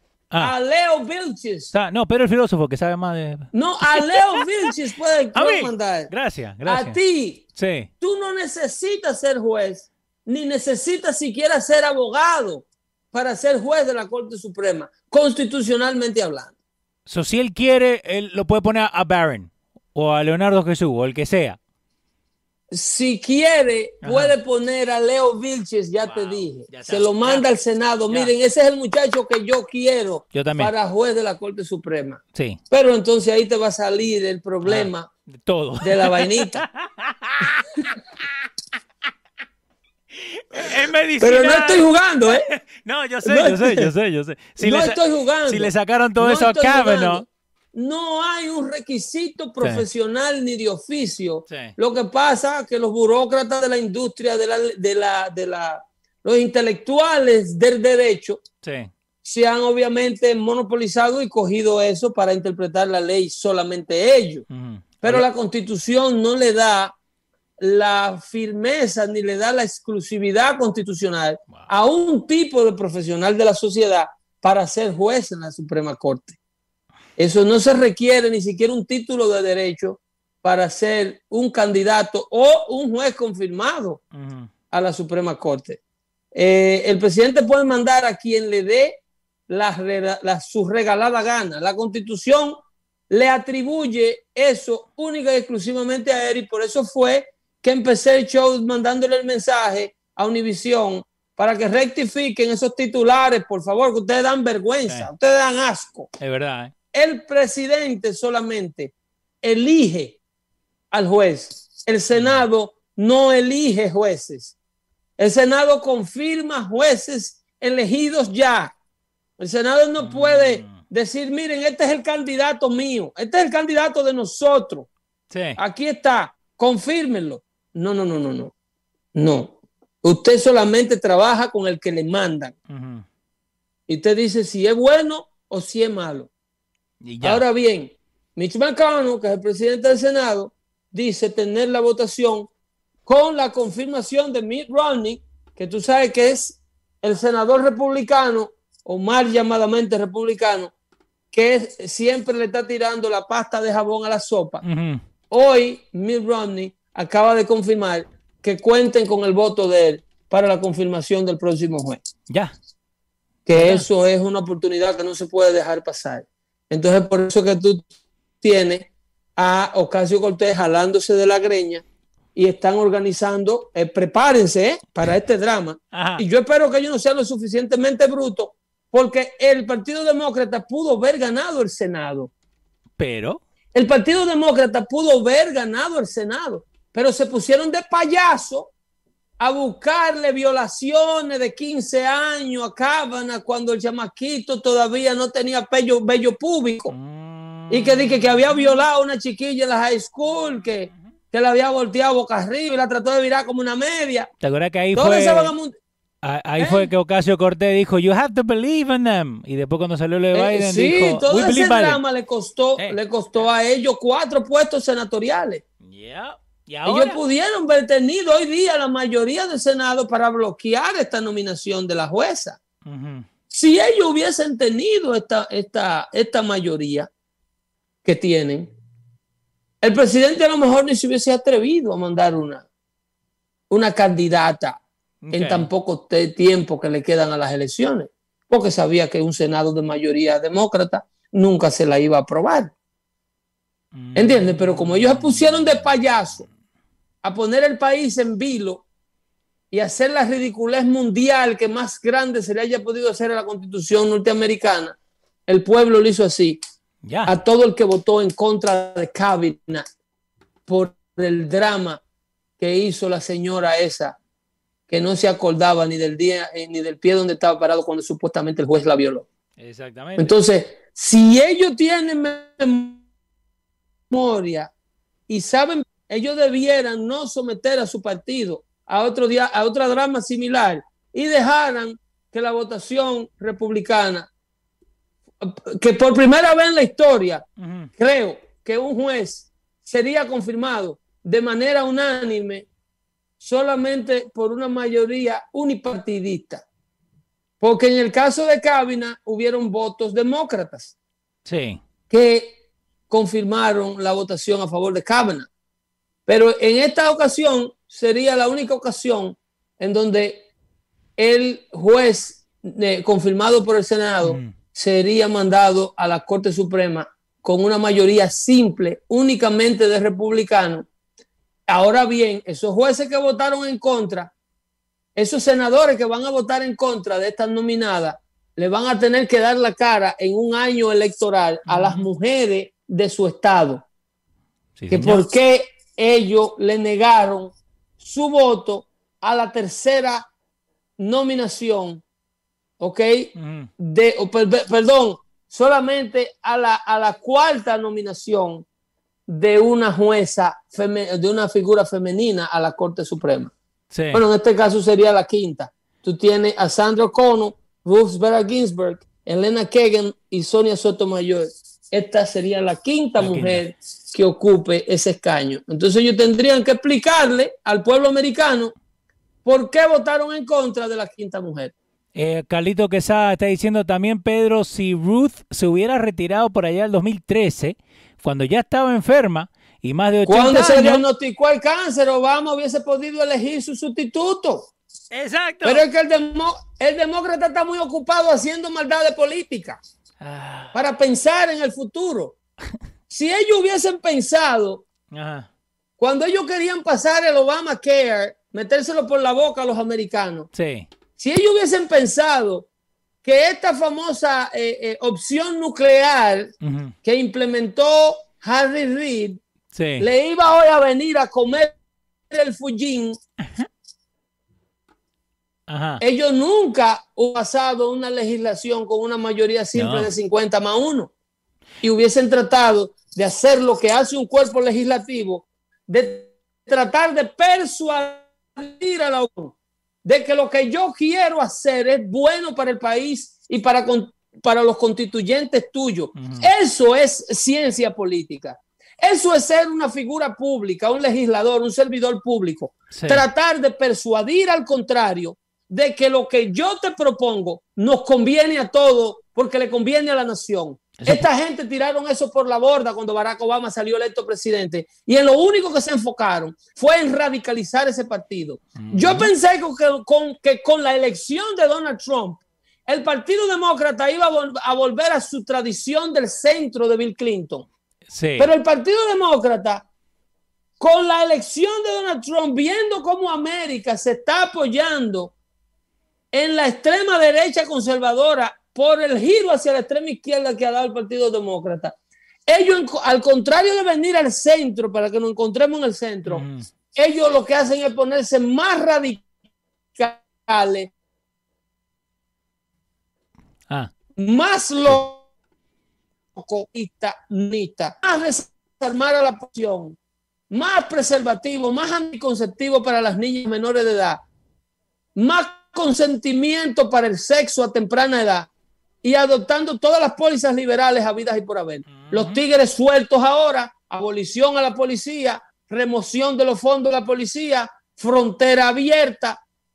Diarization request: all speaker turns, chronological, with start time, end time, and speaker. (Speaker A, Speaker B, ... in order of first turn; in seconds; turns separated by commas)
Speaker A: 0.4-1.7, Speaker B: 1.7-4.5, Speaker A: 3.5-6.1, Speaker B: 5.3-7.0, Speaker A: 6.6-7.5, Speaker B: 7.5-7.9, Speaker A: 8.0-16.5, Speaker B: 17.1-21.6, Speaker A: 22.7-35.1, Speaker B: 24.0-24.3, Speaker B: 26.0-27.4, Speaker B: 30.3-30.7, Speaker B: 32.3-32.6, Speaker B: 34.6-34.9, Speaker B: 35.5-37.7, Speaker A: 35.8-36.6, Speaker B: 40.1-47.2, Speaker A: 41.2-42.4, Speaker A: 43.2-43.9, Speaker A: 44.6-58.4, Speaker B: 51.5-51.7, Speaker B: 58.6-58.9, Speaker A: 59.2-64.5, Speaker B: 64.5-65.2, Speaker A: 65.0-66.9, Speaker A: 67.6-76.4, Speaker A: 77.2-84.0, Speaker B: 84.1-84.5, Speaker A: 84.7-85.8, Speaker A: 86.3-92.6, Speaker A: 93.1-106.1, Speaker B: 106.2-106.7, Speaker A: 106.9-110.2, Speaker A: 110.9-114.5, Speaker B: 112.1-112.4, Speaker A: 115.2-118.7, Speaker A: 119.4-124.9, Speaker B: 120.0-120.8, Speaker B: 125.3-125.6, Speaker A: 125.6-128.5, Speaker A: 129.1-132.5, Speaker B: 132.7-133.0, Speaker A: 133.9-136.3, Speaker B: 137.0-137.4, Speaker A: 137.2-142.5, Speaker A: 143.1-150.7, Speaker A: 151.3-154.6, Speaker B: 154.6-155.0, Speaker A: 155.3-162.0, Speaker A: 163.4-167.8, Speaker B: 163.5-163.8, Speaker A: 168.4-171.8, Speaker A: 172.3-182.3, Speaker B: 175.9-176.2, Speaker B: 183.0-183.4, Speaker A: 183.7-188.7, Speaker A: 189.4-196.9, Speaker B: 196.9-198.8, Speaker A: 197.7-204.3, Speaker B: 204.4-205.5, Speaker A: 204.9-205.7, Speaker B: 206.2-212.0, Speaker A: 206.6-206.9, Speaker A: 210.3-215.6, Speaker B: 215.8-217.2, Speaker A: 216.8-222.6, Speaker B: 222.8-223.3, Speaker A: 223.5-227.1, Speaker A: 228.0-228.7, Speaker A: 229.8-232.7, Speaker A: 233.7-234.8, Speaker B: 235.2-235.7, Speaker A: 235.3-242.7, Speaker B: 243.9-245.8, Speaker A: 244.1-246.4, Speaker A: 247.2-248.8, Speaker A: 249.7-254.9, Speaker A: 255.5-256.6, Speaker B: 257.0-257.3, Speaker A: 257.2-259.9, Speaker A: 260.7-262.0, Speaker A: 262.6-264.2, Speaker A: 264.9-269.2, Speaker B: 269.6-270.3, Speaker A: 270.2-273.0, Speaker A: 274.1-274.7, Speaker A: 275.3-284.3, Speaker A: 285.4-287.4, Speaker B: 287.6-287.9, Speaker A: 288.0-292.7, Speaker A: 293.4-296.6, Speaker A: 297.6-300.9, Speaker B: 301.4-301.8, Speaker A: 302.1-302.6, Speaker A: 303.1-305.5, Speaker A: 306.3-310.5, Speaker A: 311.2-320.9, Speaker B: 314.2-314.5, Speaker A: 321.7-324.3, Speaker A: 325.1-333.9, Speaker B: 331.7-332.0, Speaker B: 334.8-335.2, Speaker A: 334.9-340.3, Speaker A: 341.0-342.0, Speaker A: 342.8-348.6, Speaker B: 343.4-343.7, Speaker A: 349.3-353.5, Speaker B: 353.9-354.2, Speaker A: 354.1-368.7, Speaker B: 363.2-363.6, Speaker A: 369.4-371.7, Speaker B: 372.1-381.0, Speaker A: 380.2-384.7, Speaker B: 385.1-385.8, Speaker A: 385.6-389.8, Speaker B: 390.2-390.7, Speaker A: 390.7-392.4, Speaker A: 393.1-394.8, Speaker B: 395.1-395.5, Speaker A: 396.0-400.5, Speaker B: 400.5-400.9, Speaker A: 401.2-402.7, Speaker A: 403.2-406.5, Speaker B: 406.6-406.9, Speaker A: 407.0-409.4, Speaker B: 409.7-410.1, Speaker A: 410.0-411.7, Speaker A: 412.3-413.2, Speaker B: 415.7-416.0, Speaker A: 416.0-421.1, Speaker B: 419.7-420.1, Speaker A: 421.8-467.7, Speaker B: 436.1-436.5, Speaker B: 442.9-443.2, Speaker B: 451.0-451.2, Speaker B: 458.8-459.3, Speaker B: 468.1-468.5, Speaker A: 468.4-469.9, Speaker A: 470.8-475.3, Speaker A: 476.3-481.9, Speaker A: 482.5-489.3, Speaker B: 486.3-486.7, Speaker A: 489.9-490.9, Speaker A: 494.2-495.2, Speaker A: 496.3-500.0, Speaker A: 500.5-504.2, Speaker A: 505.1-508.5, Speaker A: 509.0-519.4, Speaker B: 511.9-512.4